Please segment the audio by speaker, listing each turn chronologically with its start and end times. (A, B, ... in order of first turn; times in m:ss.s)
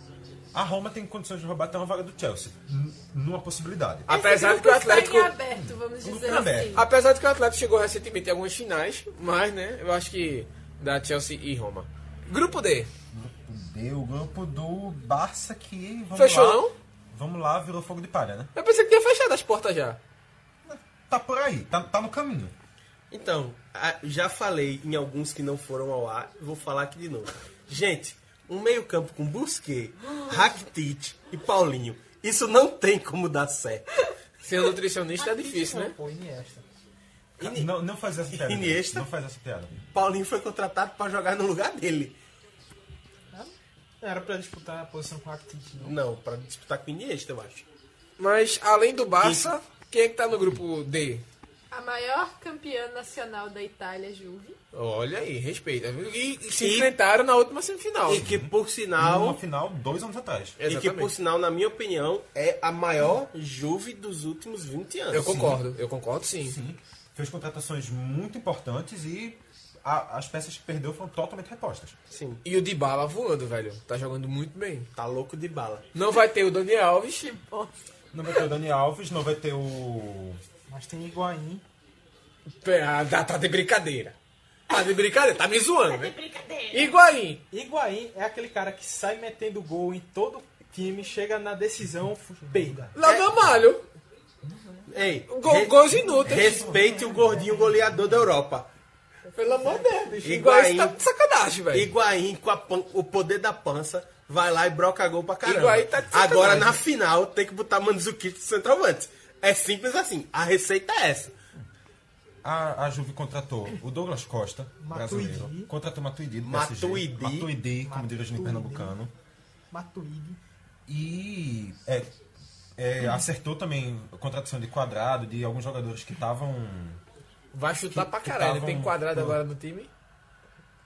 0:00.5-0:04.1 A
0:04.1-0:05.4 B
0:04.1-0:06.8 C
0:05.3-0:06.8 A
0:06.3-0:12.9 B
0:13.1-0:18.5 A
0:16.2-0:16.8 B
0:18.6-0:20.0 B
0:20.7-0:22.5 A
0:23.1-0:33.9 D
0:34.4-0:36.0 B
0:35.2-0:36.6 E
0:37.4-0:37.8 D
0:37.4-0:39.8 A
0:38.3-0:39.1 D
0:39.9-0:42.2 D
0:43.3-0:46.0 E
0:45.8-0:47.7 D
0:48.2-0:51.2 B
0:49.2-0:49.5 D
0:51.7-0:54.6 C
0:54.7-0:58.2 B
0:56.6-0:56.9 D
0:58.0-0:59.4 D
0:58.2-1:00.6 A
1:00.6-1:01.1 B
1:00.7-1:05.4 D
1:05.1-1:06.6 B
1:05.2-1:05.6 A
1:06.4-1:12.0 A
1:12.1-1:12.4 D
1:12.4-1:14.9 B
1:15.0-1:15.9 D
1:15.9-1:17.7 B
1:18.1-1:20.4 A
1:20.7-1:21.6 E
1:22.6-1:24.2 B
1:24.7-1:26.2 B
1:26.7-1:27.4 B
1:27.5-1:32.9 E
1:33.0-1:33.9 B
1:33.0-1:33.3 D
1:34.9-1:38.7 D
1:35.3-1:36.6 B
1:36.1-1:37.2 A
1:39.3-1:41.9 B
1:40.2-1:41.0 D
1:41.7-1:51.4 D
1:45.4-1:46.8 B
1:52.4-1:59.1 A
1:54.8-1:55.7 E
1:56.4-1:57.5 D
1:57.8-1:59.0 E
1:59.7-2:00.4 E
2:00.9-2:02.2 A
2:02.8-2:07.0 A
2:07.5-2:09.9 B
2:07.9-2:09.4 A